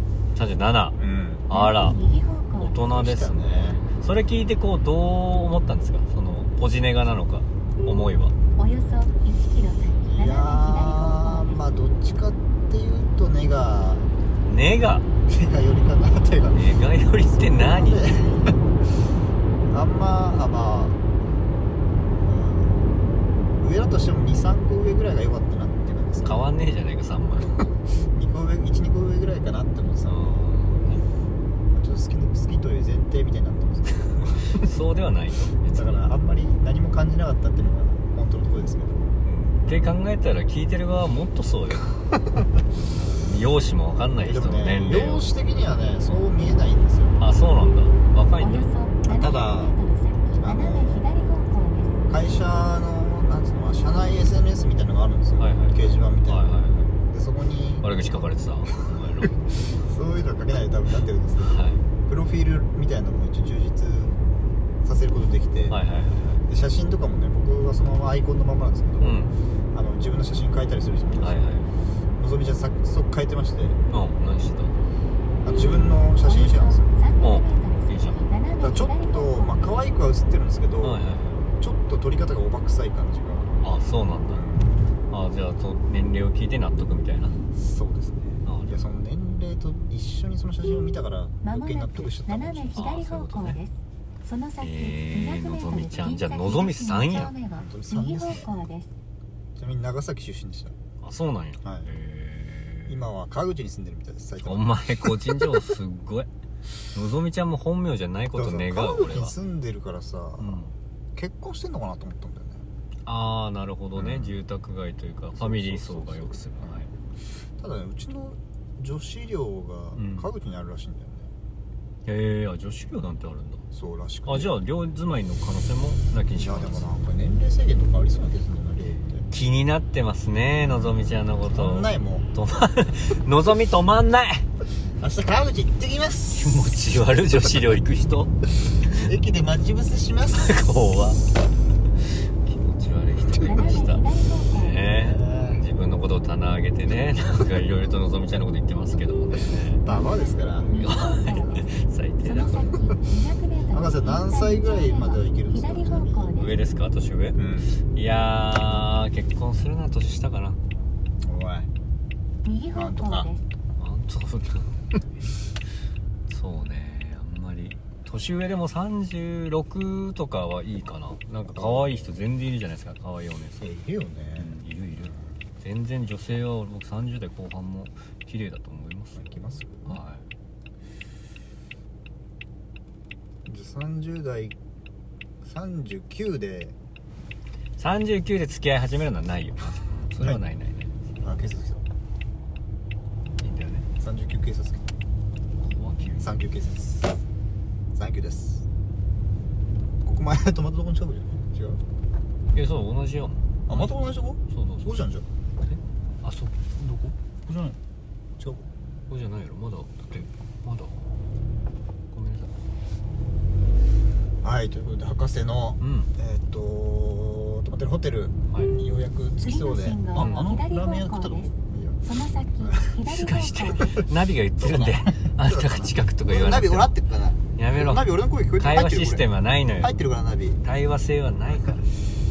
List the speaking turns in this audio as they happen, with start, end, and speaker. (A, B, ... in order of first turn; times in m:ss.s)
0:00.4-0:02.0 A
0:01.0-0:01.5 B
0:01.5-0:02.8 C
0:02.6-0:08.4 A
0:02.8-0:03.8 B
0:08.6-0:11.6 C
0:10.1-0:14.1 B
0:14.4-0:15.1 A
0:15.3-0:16.6 B
0:16.5-0:18.2 A
0:17.7-0:18.6 B
0:19.7-0:21.1 B
0:22.2-0:23.0 B
0:23.6-0:26.4 B
0:26.2-0:27.7 A
0:27.5-0:30.5 B
0:30.0-0:31.0 A
0:31.7-0:34.7 B
0:34.3-0:36.1 A
0:35.7-0:39.1 B
0:39.2-0:42.0 A
0:42.9-0:45.3 A
0:44.2-0:47.2 B
0:47.2-0:48.7 A
0:48.4-0:52.0 C
0:49.0-0:49.8 B
0:50.4-0:51.1 B
0:52.1-0:57.9 B
0:55.4-0:57.0 A
0:57.8-0:59.5 A
0:59.7-1:05.8 B
1:01.4-1:01.8 A
1:05.7-1:06.5 A
1:06.5-1:11.5 B
1:09.0-1:09.3 A
1:11.2-1:11.7 A
1:12.2-1:13.8 B
1:13.9-1:14.8 A
1:15.4-1:16.9 B
1:16.2-1:19.8 C
1:17.2-1:18.2 A
1:18.6-1:21.0 B
1:20.8-1:21.5 A
1:21.6-1:23.5 B
1:23.6-1:24.4 A
1:24.3-1:24.8 B
1:25.1-1:27.4 A
1:27.5-1:32.9 B
1:28.4-1:29.0 A
1:31.4-1:38.9 C
1:32.8-1:33.6 A
1:34.6-1:37.3 A
1:37.5-1:38.6 B
1:39.6-1:40.8 B
1:41.0-1:43.0 A
1:41.6-1:41.9 B
1:42.9-1:45.6 B
1:44.4-1:46.3 A
1:46.9-1:49.4 A
1:48.3-1:50.6 B
1:50.4-1:50.8 A
1:51.2-1:52.7 B
1:53.1-1:56.9 A
1:54.0-1:54.4 B
1:55.4-1:56.9 B
1:57.6-2:01.3 B
2:00.0-2:00.3 A
2:02.1-2:03.6 A
2:03.7-2:04.6 B
2:04.3-2:06.9 A
2:06.4-2:09.3 B
2:09.3-2:14.5 A
2:10.7-2:12.3 B
2:15.0-2:16.7 B
2:16.4-2:19.1 A
2:18.9-2:20.7 B
2:20.4-2:21.2 A
2:22.0-2:29.8 A
2:23.4-2:24.8 C
2:24.9-2:25.6 B
2:29.8-2:31.0 B
2:29.9-2:31.7 C
2:30.8-2:32.8 A
2:32.2-2:36.6 C
2:33.7-2:36.3 B
2:36.4-2:40.6 A
2:37.4-2:37.8 B
2:41.2-2:41.7 B
2:42.4-2:43.4 C
2:42.7-2:43.3 B
2:43.8-2:44.8 A
2:46.3-2:53.7 A
2:51.4-2:52.3 B
2:53.6-2:55.3 B
2:54.4-3:00.2 A
2:59.2-3:00.0 B
3:03.5-3:04.6 B
3:05.4-3:06.8 B
3:07.8-3:11.2 A
3:11.2-3:11.8 B
3:13.4-3:13.9 A
3:14.0-3:14.9 B
3:15.6-3:16.3 A
3:16.2-3:17.2 B
3:18.0-3:18.6 B
3:20.0-3:21.8 B
3:22.5-3:24.9 A
3:23.7-3:25.2 B
3:25.6-3:27.2 A
3:27.4-3:27.8 B
3:28.4-3:28.7 B
3:29.1-3:31.1 A
3:32.1-3:32.5 A
3:34.4-3:42.9 B
3:35.8-3:36.1 A
3:38.5-3:38.8 A
3:39.4-3:44.0 C
3:40.2-3:40.5 A
3:43.1-3:47.0 A
3:44.6-3:49.2 B
3:47.6-3:50.0 A
3:49.8-3:50.6 B
3:50.6-3:51.9 A